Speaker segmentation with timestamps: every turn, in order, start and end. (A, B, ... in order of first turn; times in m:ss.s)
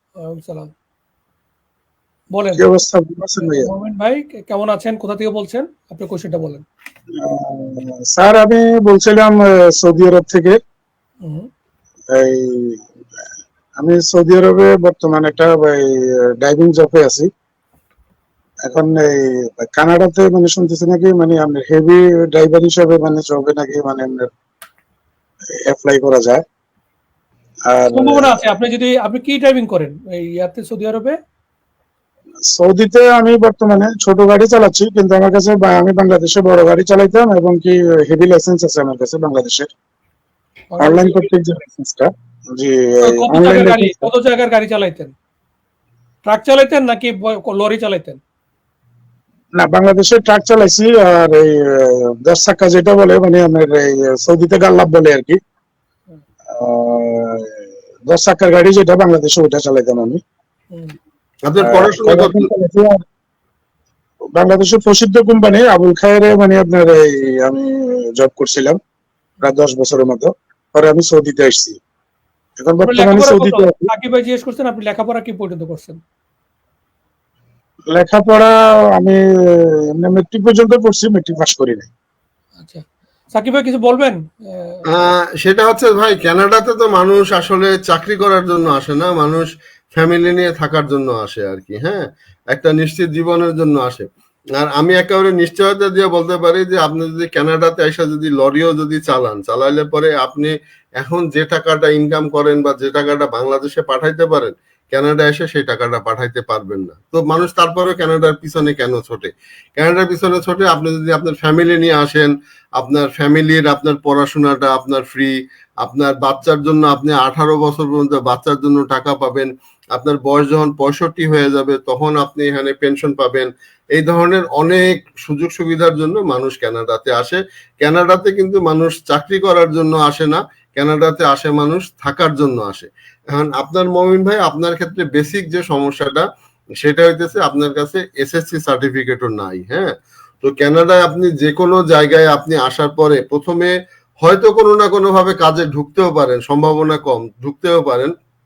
0:00.2-0:00.7 A
0:02.3-0:02.6 A
0:02.6-0:03.7 B
0:03.4-0:06.6 A
0:07.2-0:10.6 B
0:11.2-0:11.5 A
0:12.1-0:12.8 B
0:13.8-0:17.3 B
0:18.6-0:24.3 B
0:25.7-0:26.4 B
0:27.7-0:28.4 B
0:27.9-0:31.1 A
0:32.5-0:39.7 B
0:40.7-0:41.3 A
0:40.8-0:44.1 B
0:43.0-0:45.1 A
0:46.2-0:48.2 A
0:49.6-0:55.4 B
0:56.5-0:57.5 B
0:58.1-1:00.2 B
1:01.4-1:02.5 C
1:01.6-1:03.0 B
1:04.4-1:08.8 B
1:09.4-1:11.8 B
1:12.6-1:13.9 B
1:12.8-1:16.0 A
1:17.9-1:21.9 B
1:22.6-1:24.9 A
1:24.9-2:16.2 C
2:16.8-2:28.1 C